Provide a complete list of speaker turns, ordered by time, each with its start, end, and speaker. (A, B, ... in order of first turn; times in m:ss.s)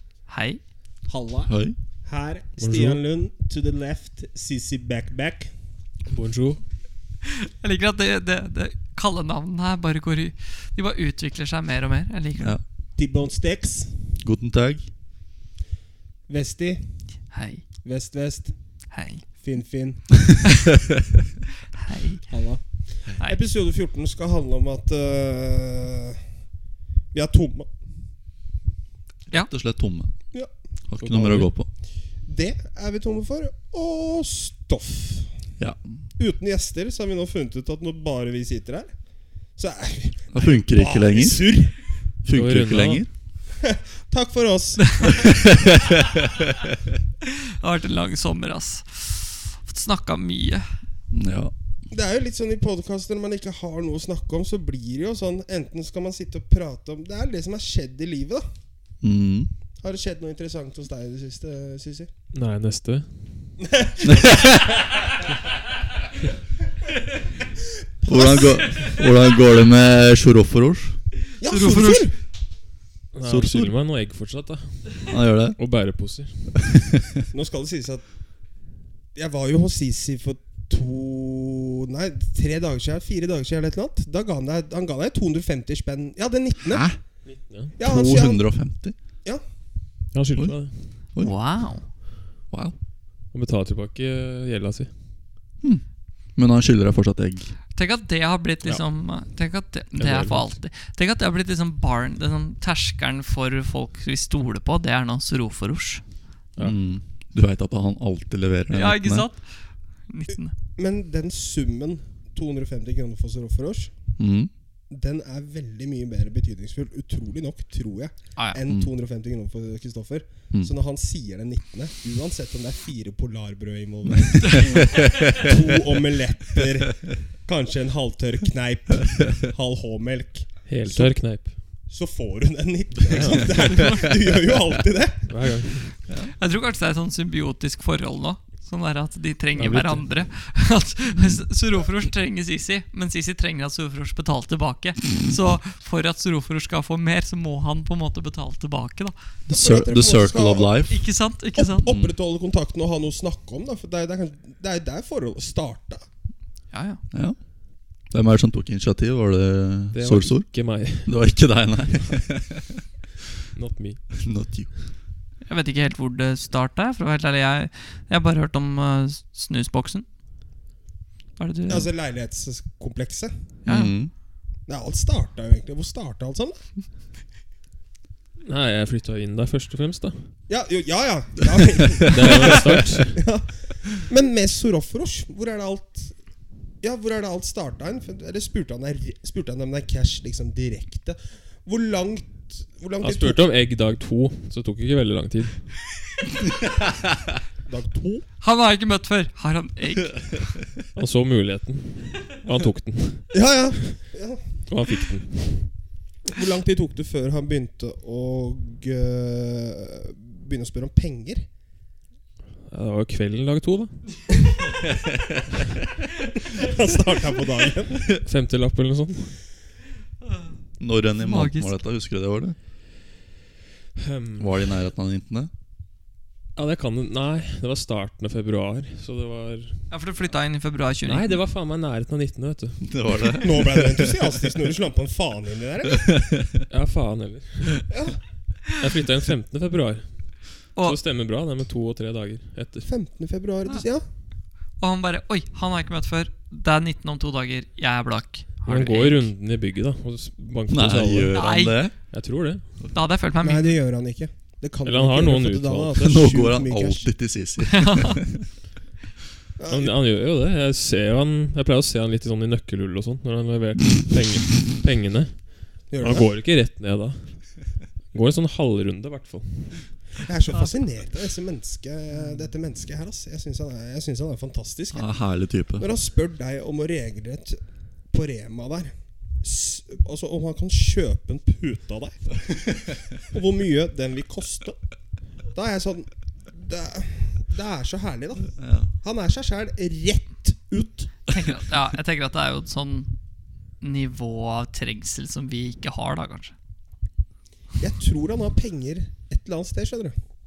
0:00.3-0:00.6 A
0:01.1-0:01.5 B
0:01.5-0:01.7 C
0:02.0-0:05.5 B
0:02.6-0:03.0 D
0:06.1-0:06.6 D
0:07.4-0:12.6 A
0:13.0-0:14.0 B
0:14.2-0:14.9 C
0:16.3-0:17.0 B
0:17.3-0:17.6 A
0:17.8-0:18.6 B
0:18.9-0:19.2 A
0:19.3-0:20.4 B
0:21.8-0:22.2 A
0:22.3-0:26.2 B
0:27.1-0:27.7 B
0:29.5-0:30.1 C
0:30.9-0:31.7 C
0:31.0-0:31.5 D
0:32.2-0:35.3 B
0:36.2-0:38.9 B
0:39.5-0:41.8 B
0:40.3-0:41.6 C
0:42.2-0:43.1 C
0:42.3-0:43.0 D
0:43.6-0:45.4 B
0:45.3-0:46.6 C
0:47.3-0:50.6 A
0:51.1-0:51.5 C
0:51.9-0:58.4 B
0:59.0-0:59.5 C
0:59.8-1:02.1 B
1:02.3-1:03.2 D
1:03.6-1:04.6 B
1:04.0-1:04.8 C
1:08.0-1:08.8 B
1:08.0-1:11.0 C
1:11.4-1:12.1 B
1:11.5-1:12.1 A
1:13.1-1:16.7 D
1:13.2-1:13.7 C
1:15.1-1:15.6 C
1:16.6-1:16.9 C
1:17.3-1:18.0 B
1:19.1-1:26.9 B
1:26.6-1:27.0 C
1:27.3-1:27.7 D
1:27.8-1:28.5 B
1:27.8-1:29.0 C
1:30.1-1:30.9 D
1:30.4-1:31.4 C
1:31.2-1:31.9 A
1:33.3-1:34.9 D
1:36.3-1:37.5 C
1:37.7-1:46.0 A
1:46.6-1:49.2 C
1:48.7-1:49.5 A
1:50.1-1:50.5 A
1:50.8-1:53.9 B
1:54.2-1:54.5 C
1:54.9-2:11.2 B
1:58.4-1:58.6 A
2:04.4-2:04.7 A
2:05.0-2:05.5 C
2:10.7-2:11.6 D
2:11.9-2:15.6 B
2:13.1-2:13.5 D
2:15.3-2:16.0 D
2:16.2-2:29.1 A
2:19.6-2:20.1 D
2:29.5-2:31.0 C
2:29.5-2:30.8 B
2:30.9-2:31.9 A
2:31.6-2:36.0 B
2:36.7-2:37.0 A
2:38.1-2:42.8 C
2:39.9-2:41.1 D
2:43.5-2:44.1 D
2:44.2-2:44.8 C
2:45.4-2:50.0 A
2:51.4-2:51.9 A
2:51.7-2:53.3 B
2:53.6-2:54.1 C
2:53.6-2:53.9 A
2:54.7-2:56.6 B
2:58.4-3:00.3 D
3:00.5-3:06.1 B
3:02.1-3:03.2 D
3:06.8-3:13.5 B
3:13.0-3:15.7 D
3:17.6-3:18.2 B
3:18.4-3:20.5 A
3:20.9-3:23.3 D
3:23.3-3:24.4 B
3:24.7-3:25.7 D
3:26.3-3:31.5 B
3:32.7-3:34.0 D
3:36.5-3:38.0 B
3:38.2-3:39.4 D
3:40.8-3:42.6 C
3:41.2-3:41.8 A
3:44.0-3:44.6 D
3:44.4-3:45.5 C
3:46.6-3:49.9 D
3:49.9-3:51.4 A
3:51.0-3:53.4 D
3:52.8-3:54.2 C
3:53.4-3:56.2 B
3:56.0-3:56.6 C
3:56.7-3:57.9 D
3:57.9-3:58.2 B
3:58.7-4:02.9 D
4:02.8-4:04.0 B
4:04.8-4:09.2 A
4:08.6-4:11.4 D
4:10.7-4:11.9 C
4:11.3-4:12.0 A
4:12.1-4:12.7 D
4:12.9-4:13.8 A
4:13.4-4:17.0 B
4:14.8-4:16.0 D
4:16.0-4:18.4 C
4:17.7-4:18.2 A
4:19.6-4:19.9 B
4:19.7-4:30.0 D
4:25.9-4:26.4 B
4:30.2-4:35.1 B
4:34.9-4:35.9 C
4:35.8-4:44.8 B
4:45.5-4:51.1 B
4:48.6-4:48.9 C
4:51.3-4:53.1 A
4:53.8-4:56.5 A
4:57.8-5:00.1 B